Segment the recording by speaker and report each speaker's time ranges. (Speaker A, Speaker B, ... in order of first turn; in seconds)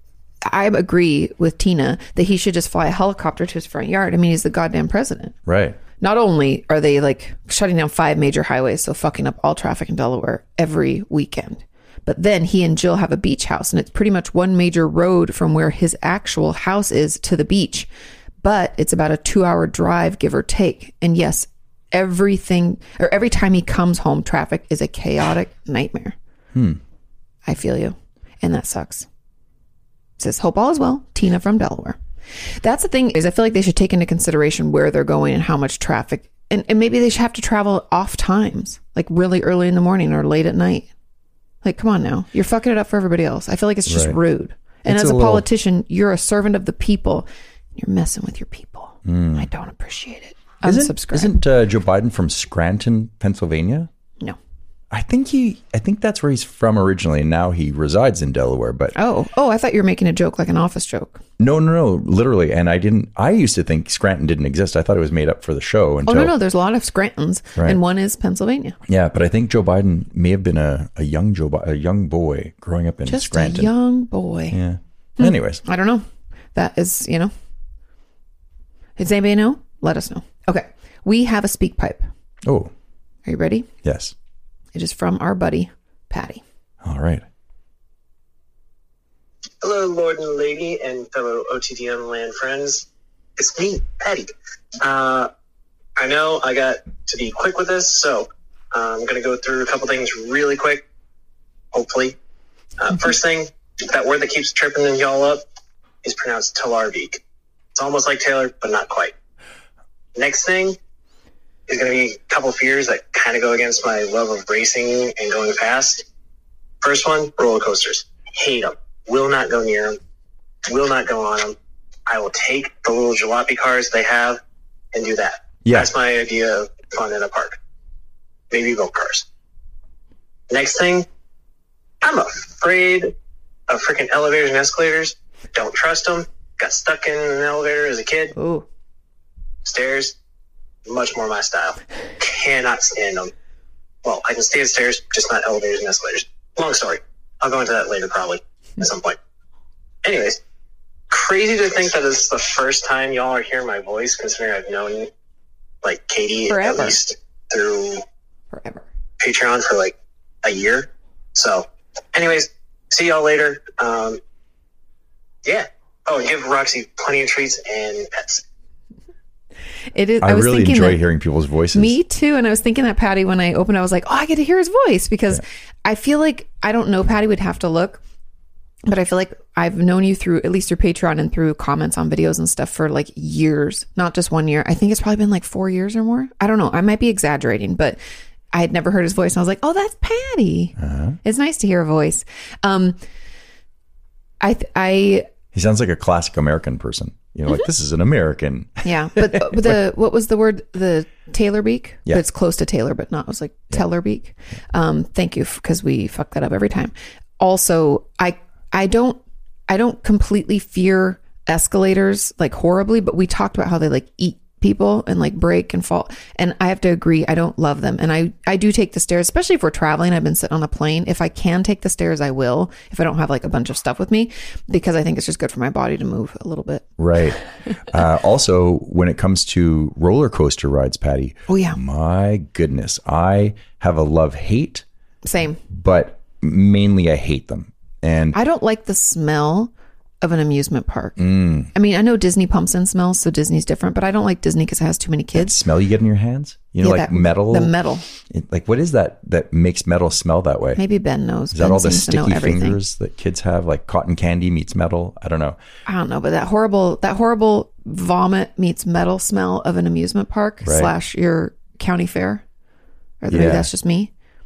Speaker A: 0.4-5.4, 6.0-17.9, 18.4-26.2, 27.5-29.1, 30.2-32.0, 32.6-40.9, 41.6-51.4, 59.0-61.2, 66.0-68.8, 73.1-74.6, 75.2-77.3, 79.0-82.1, 83.2-83.7, 84.7-86.4, 138.3-138.7, 156.5-157.0, 158.5-158.8, 169.9-171.0, 171.7-178.0, 178.9-188.0, 188.5-193.0, 194.4-195.3, 198.8-226.9, 231.5-231.8, 235.2-235.6, 238.3-245.6, 246.8-248.1, 250.8-252.8, 255.9-262.4, 263.2-264.1
Speaker B: 5.5-5.8, 26.5-26.8, 43.9-44.2, 44.9-45.5, 49.0-49.5, 50.6-53.9, 54.9-59.0, 61.4-66.3, 68.9-73.7, 74.5-75.6, 82.5-82.7, 83.8-84.1, 86.8-87.2, 170.2-172.0, 190.8-191.2, 195.5-199.8, 227.0-234.8, 235.7-238.4, 241.2-241.7, 245.3-247.7, 248.2-250.8, 251.5-255.6, 260.6-260.9, 263.3-263.7
Speaker C: 89.6-92.9, 93.4-94.3, 94.8-95.3, 96.0-100.8, 101.7-102.2, 102.8-105.4, 106.0-107.2, 107.8-109.1, 110.2-110.8, 111.7-116.0, 116.8-120.0, 120.7-121.5, 122.1-124.4, 124.9-127.6, 128.5-129.2, 130.5-131.1, 132.0-133.1, 133.7-138.3, 139.6-140.2, 140.9-143.3, 144.0-149.2, 150.0-150.4, 151.1-155.1, 155.8-158.0, 159.2-164.2, 165.4-168.4